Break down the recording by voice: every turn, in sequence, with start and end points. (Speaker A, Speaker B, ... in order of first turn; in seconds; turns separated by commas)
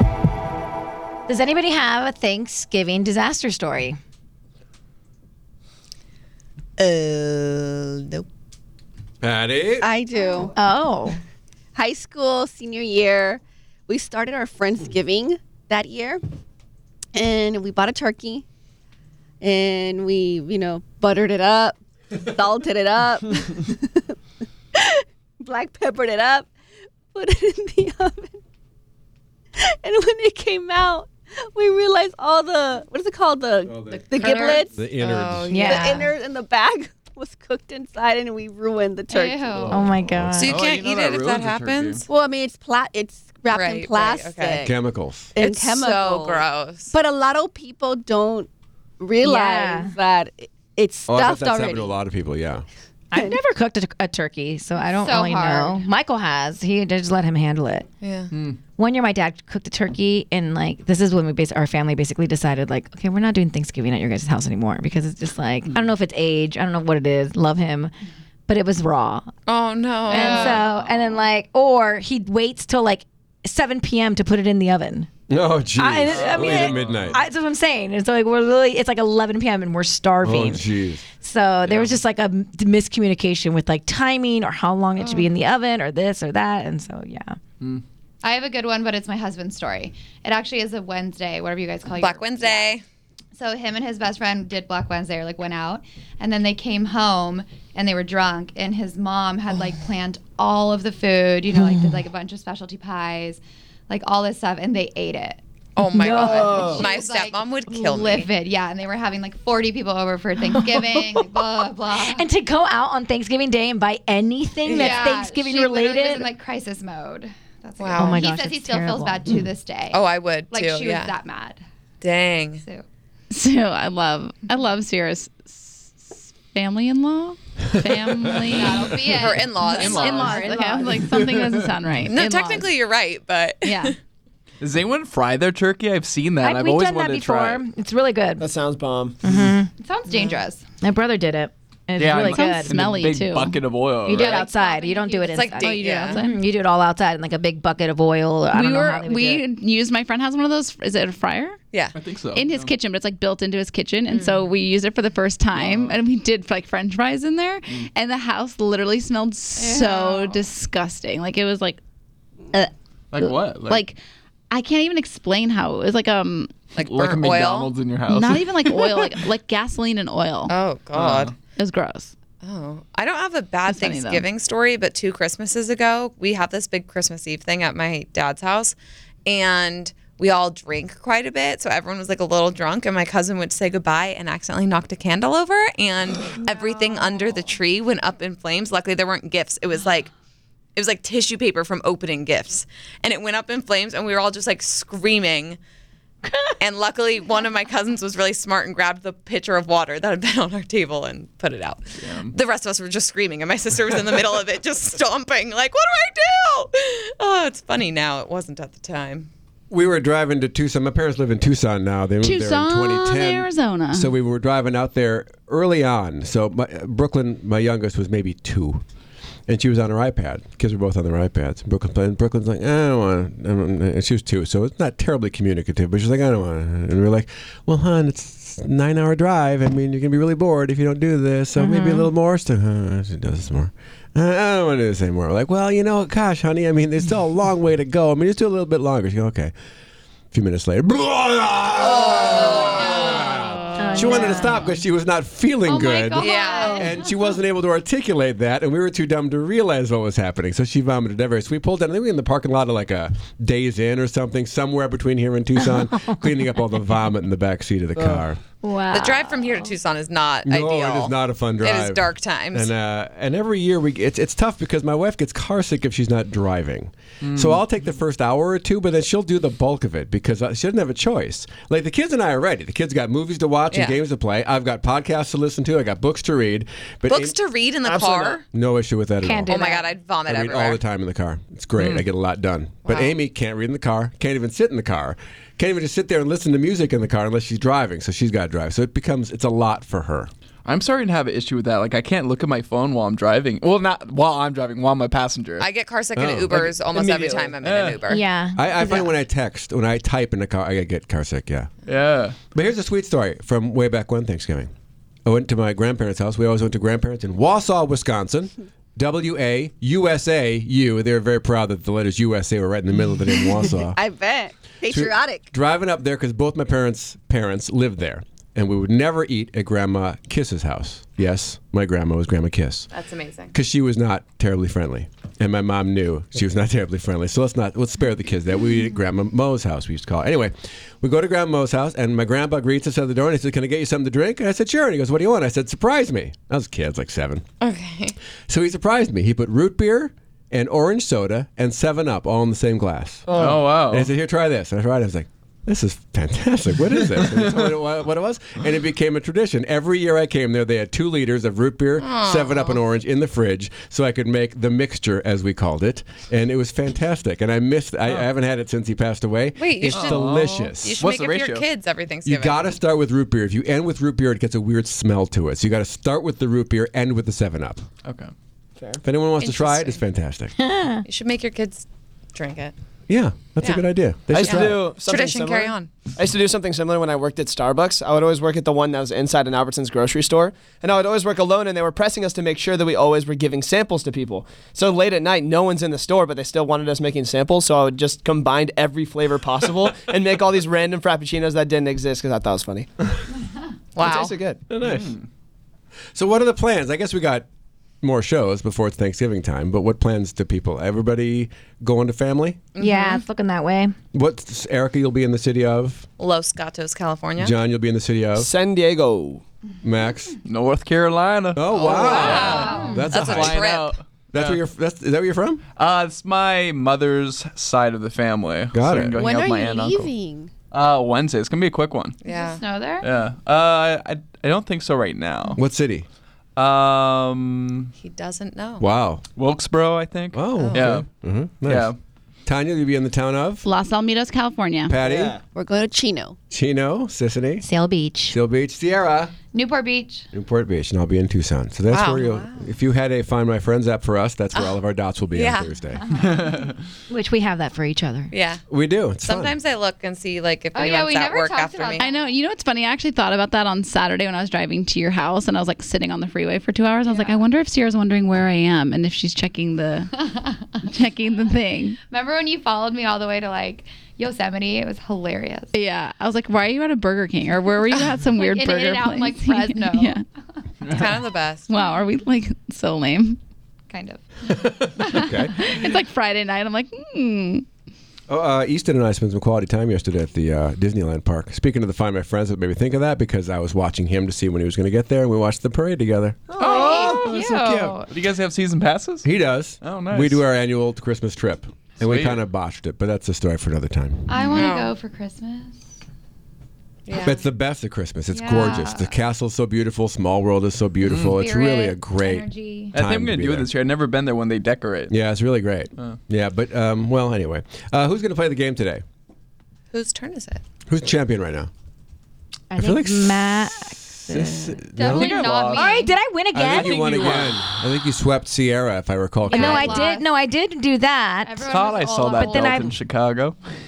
Speaker A: 1.3-4.0, Speaker B: 6.8-8.2, Speaker C: 9.2-9.9, Speaker B: 9.8-10.5, Speaker A: 10.6-11.2, Speaker B: 11.7-16.2, Speaker B: 17.1-18.4, Speaker B: 19.4-24.1, Speaker B: 24.7-26.5, Speaker B: 27.1-28.4, Speaker B: 29.6-34.8, Speaker D: 34.2-36.1, Speaker C: 34.7-35.6, Speaker A: 35.5-35.8, Speaker B: 35.7-39.6, Speaker E: 39.1-39.8, Speaker F: 39.6-42.0, Speaker A: 39.7-40.6, Speaker D: 40.4-42.1, Speaker B: 42.1-44.7, Speaker D: 43.5-44.6, Speaker C: 44.6-45.3, Speaker B: 45.3-51.9, Speaker D: 45.4-46.9, Speaker A: 49.2-49.9, Speaker C: 51.1-52.6, Speaker A: 53.1-57.9, Speaker E: 54.9-55.8, Speaker D: 58.0-58.3, Speaker F: 58.3-58.6, Speaker A: 58.8-67.9, Speaker A: 68.5-69.3, Speaker D: 69.5-70.6, Speaker A: 70.1-75.1, Speaker C: 75.3-77.2, Speaker A: 75.7-87.4, Speaker F: 76.1-77.2, Speaker C: 80.2-81.0, Speaker F: 81.7-82.0, Speaker E: 85.0-85.3, Speaker E: 88.2-92.8, Speaker D: 91.9-92.8, Speaker E: 93.3-105.4, Speaker A: 101.5-102.0, Speaker D: 105.8-108.3, Speaker A: 105.8-106.8, Speaker E: 106.2-112.2, Speaker A: 110.5-111.3, Speaker A: 111.9-116.3, Speaker D: 114.6-115.0, Speaker E: 114.7-121.6, Speaker D: 117.8-118.3, Speaker A: 118.0-119.3, Speaker D: 119.9-121.1, Speaker D: 122.0-122.6, Speaker E: 122.6-122.8, Speaker G: 123.3-128.8, Speaker E: 128.5-131.1, Speaker D: 129.1-130.5, Speaker G: 129.6-132.7, Speaker F: 129.8-130.4, Speaker F: 131.1-131.7, Speaker D: 132.1-133.9, Speaker G: 133.6-133.9, Speaker F: 134.6-137.6, Speaker A: 136.4-138.5, Speaker H: 138.4-139.2, Speaker A: 139.2-142.8, Speaker E: 139.8-140.7, Speaker F: 142.0-144.5, Speaker G: 142.3-143.6, Speaker A: 144.0-149.4, Speaker E: 144.3-146.0, Speaker D: 145.3-146.2, Speaker G: 145.7-146.4, Speaker G: 148.5-151.6, Speaker F: 151.9-152.7, Speaker G: 152.3-161.8, Speaker D: 154.1-154.5, Speaker F: 155.5-156.0, Speaker E: 159.6-160.4, Speaker G: 162.5-164.0, Speaker F: 163.1-163.9, Speaker G: 164.5-166.7, Speaker D: 166.7-167.8, Speaker F: 166.8-169.1, Speaker G: 168.1-170.5, Speaker D: 170.5-171.3, Speaker F: 170.9-171.3, Speaker G: 171.5-172.1, Speaker D: 172.4-190.1, Speaker G: 173.7-174.2, Speaker D: 190.8-195.6, Speaker D: 196.6-209.3, Speaker F: 202.0-202.3, Speaker C: 209.7-218.8, Speaker G: 212.2-214.1, Speaker C: 219.5-239.5, Speaker A: 231.6-232.1, Speaker C: 240.3-258.4, Speaker A: 243.8-244.7, Speaker E: 245.7-247.0, Speaker D: 246.1-246.9, Speaker A: 258.6-259.7, Speaker D: 258.9-262.7, Speaker C: 260.4-277.4, Speaker F: 267.2-267.6, Speaker D: 273.7-274.0, Speaker D: 277.1-278.4, Speaker H: 277.9-278.4, Speaker C: 278.5-279.5, Speaker A: 279.2-279.9, Speaker D: 279.5-280.8, Speaker C: 280.2-290.3, Speaker F: 281.8-282.1, Speaker D: 282.8-283.1, Speaker F: 290.6-295.7, Speaker D: 295.6-298.2, Speaker C: 296.1-296.7, Speaker H: 296.6-297.5, Speaker F: 297.6-298.1, Speaker A: 298.1-299.2, Speaker C: 298.5-301.7, Speaker F: 301.9-302.4, Speaker C: 302.5-304.7, Speaker C: 305.2-313.9, Speaker B: 313.4-315.4, Speaker C: 314.9-322.9, Speaker D: 322.9-323.5, Speaker C: 323.5-337.4, Speaker D: 337.6-338.1, Speaker C: 338.5-361.0, Speaker F: 343.3-344.1, Speaker F: 347.1-347.4, Speaker D: 352.0-352.8, Speaker D: 359.6-362.7, Speaker F: 359.9-361.7, Speaker C: 362.2-367.8, Speaker F: 368.0-368.3, Speaker C: 369.0-370.5, Speaker D: 369.4-370.0, Speaker A: 370.6-371.0, Speaker D: 371.1-372.7, Speaker C: 373.1-374.9, Speaker H: 374.3-392.9, Speaker D: 375.0-375.9, Speaker D: 393.9-394.3, Speaker H: 394.0-394.6, Speaker C: 394.7-395.1, Speaker F: 394.8-395.2, Speaker C: 396.1-397.4, Speaker C: 398.0-402.7, Speaker D: 402.7-403.2, Speaker A: 402.8-403.9, Speaker C: 404.1-406.1, Speaker D: 406.2-407.5, Speaker C: 407.4-408.5, Speaker H: 408.4-409.4, Speaker C: 409.8-410.4, Speaker F: 410.4-414.6, Speaker C: 411.5-413.6, Speaker D: 411.8-413.9, Speaker E: 412.1-412.9, Speaker A: 412.8-413.1, Speaker C: 414.3-415.6, Speaker F: 415.8-420.1, Speaker C: 418.7-419.2, Speaker B: 419.1-420.5, Speaker F: 420.7-422.2, Speaker D: 422.2-422.6, Speaker E: 422.2-423.1, Speaker F: 423.0-425.6, Speaker C: 425.6-426.1, Speaker F: 426.6-427.9, Speaker D: 428.0-428.8, Speaker C: 428.8-429.2, Speaker F: 429.4-431.1, Speaker C: 430.3-431.9, Speaker D: 430.6-431.0, Speaker F: 431.6-432.0, Speaker C: 432.4-433.6, Speaker G: 433.6-435.0, Speaker C: 434.9-435.4, Speaker H: 435.0-435.4, Speaker B: 435.5-436.4, Speaker C: 436.5-437.6, Speaker A: 437.6-438.4, Speaker C: 438.3-439.3, Speaker E: 439.5-440.3, Speaker C: 440.3-446.1, Speaker D: 441.9-442.3, Speaker B: 442.3-442.6, Speaker D: 445.3-445.7, Speaker F: 446.2-446.7, Speaker A: 447.1-448.3, Speaker D: 448.3-448.6, Speaker C: 448.7-449.6, Speaker D: 449.2-452.1, Speaker E: 450.7-452.3, Speaker G: 452.0-460.1, Speaker E: 457.0-457.5, Speaker E: 460.1-460.8, Speaker G: 460.9-462.0, Speaker E: 462.1-465.7, Speaker G: 465.7-470.2, Speaker E: 467.9-470.6, Speaker D: 470.9-471.7, Speaker G: 471.7-473.4, Speaker E: 473.9-474.5, Speaker G: 475.0-477.6, Speaker C: 475.0-475.6, Speaker C: 478.3-488.0, Speaker F: 486.6-487.3, Speaker E: 486.7-488.0, Speaker D: 486.9-487.9, Speaker F: 488.1-489.3, Speaker C: 489.2-494.4, Speaker F: 489.8-490.4, Speaker F: 492.0-492.4, Speaker E: 494.3-495.8, Speaker D: 494.5-494.9, Speaker D: 497.1-497.4, Speaker C: 497.2-503.7, Speaker E: 498.3-499.2, Speaker E: 501.3-502.9, Speaker F: 502.9-505.1, Speaker C: 505.1-509.0, Speaker D: 509.9-510.6, Speaker C: 510.9-511.7, Speaker A: 512.7-514.9, Speaker C: 512.8-515.4, Speaker E: 514.9-516.1, Speaker F: 515.0-515.8, Speaker A: 515.7-516.9, Speaker C: 516.5-520.1, Speaker F: 516.6-517.6, Speaker E: 519.4-520.2, Speaker A: 519.5-521.6, Speaker E: 521.4-522.9, Speaker F: 521.7-523.6, Speaker A: 522.3-522.9